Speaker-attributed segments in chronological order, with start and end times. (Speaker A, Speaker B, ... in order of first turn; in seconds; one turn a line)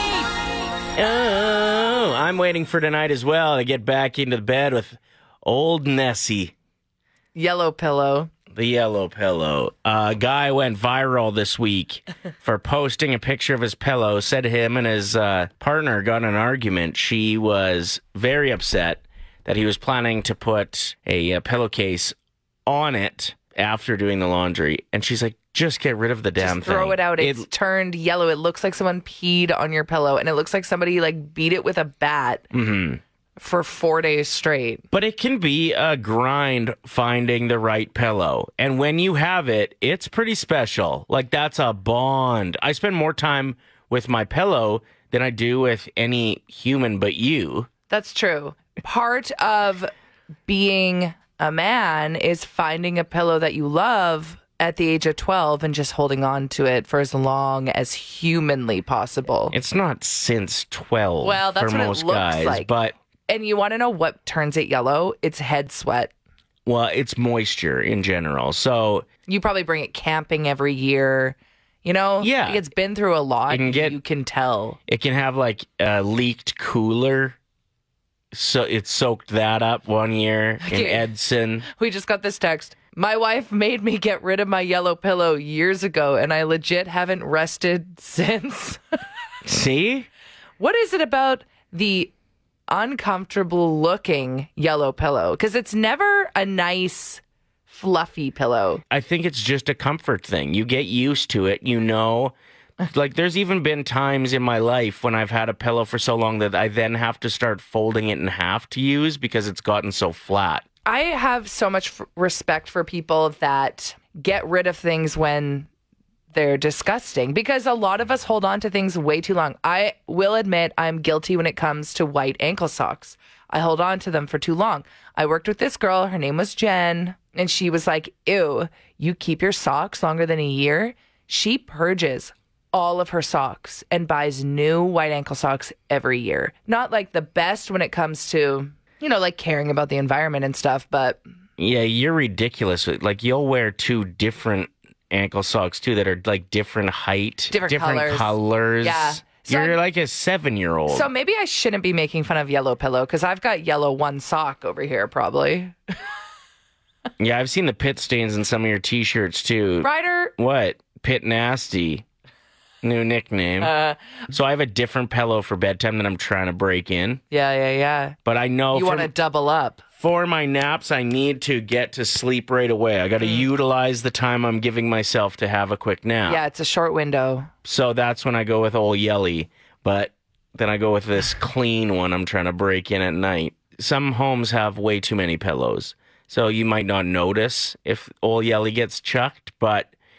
Speaker A: 0.9-6.5
Speaker B: 7.3-8.3
Speaker A: 8.5-27.5
Speaker B: 26.4-32.5
Speaker A: 32.5-33.0
Speaker B: 33.4-34.8
Speaker A: 34.9-47.7
Speaker B: 47.9-49.9
Speaker B: 50.5-59.5
Speaker A: 59.5-62.9
Speaker B: 61.2-62.7
Speaker B: 63.3-66.1
Speaker A: 66.7-69.0
Speaker B: 69.3-74.8
Speaker A: 72.2-72.6
Speaker A: 73.5-74.0
Speaker A: 74.9-77.4
Speaker A: 78.3-81.7
Speaker B: 80.6-81.0
Speaker B: 81.7-88.8
Speaker A: 89.4-90.1
Speaker B: 90.6-92.1
Speaker B: 92.7-98.8
Speaker A: 98.9-102.3
Speaker A: 102.9-110.6
Speaker B: 110.8-115.7
Speaker B: 116.3-141.2
Speaker A: 141.6-151.1
Speaker B: 147.5-149.8
Speaker B: 150.9-155.8
Speaker A: 157.2-162.0
Speaker B: 159.8-160.3
Speaker A: 162.8-163.7
Speaker B: 163.6-164.0
Speaker A: 164.3-167.2
Speaker B: 167.3-168.2
Speaker A: 168.2-169.1
Speaker B: 168.7-169.8
Speaker A: 170.0-176.4
Speaker B: 176.3-177.5
Speaker A: 177.6-189.9